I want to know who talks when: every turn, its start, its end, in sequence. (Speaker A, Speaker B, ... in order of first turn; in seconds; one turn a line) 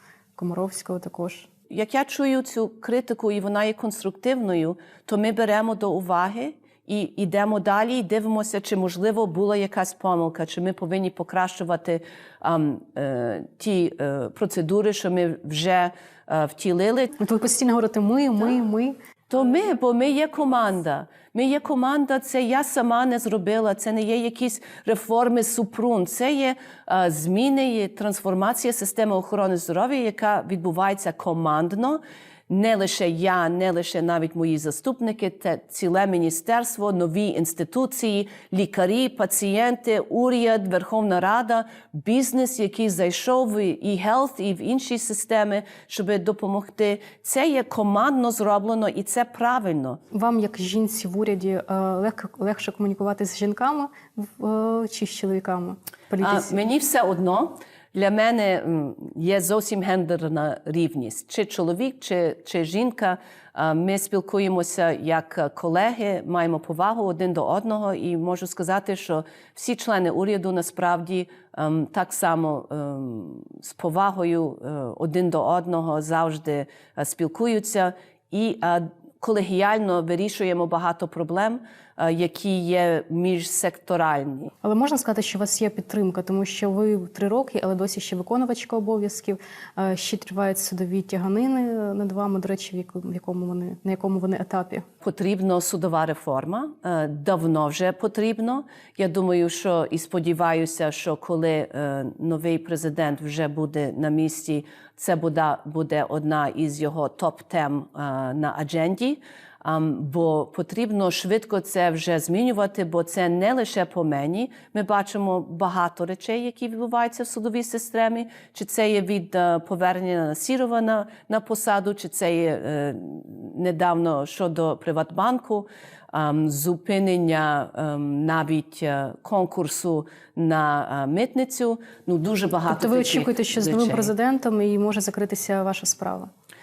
Speaker A: 0.3-1.5
Speaker B: 1.7-17.1
Speaker A: 17.2-18.9
Speaker B: 19.3-50.0
Speaker A: 50.1-56.5
Speaker B: 56.2-84.5
Speaker A: 84.6-94.8
Speaker B: 95.0-134.1
Speaker A: 132.7-136.3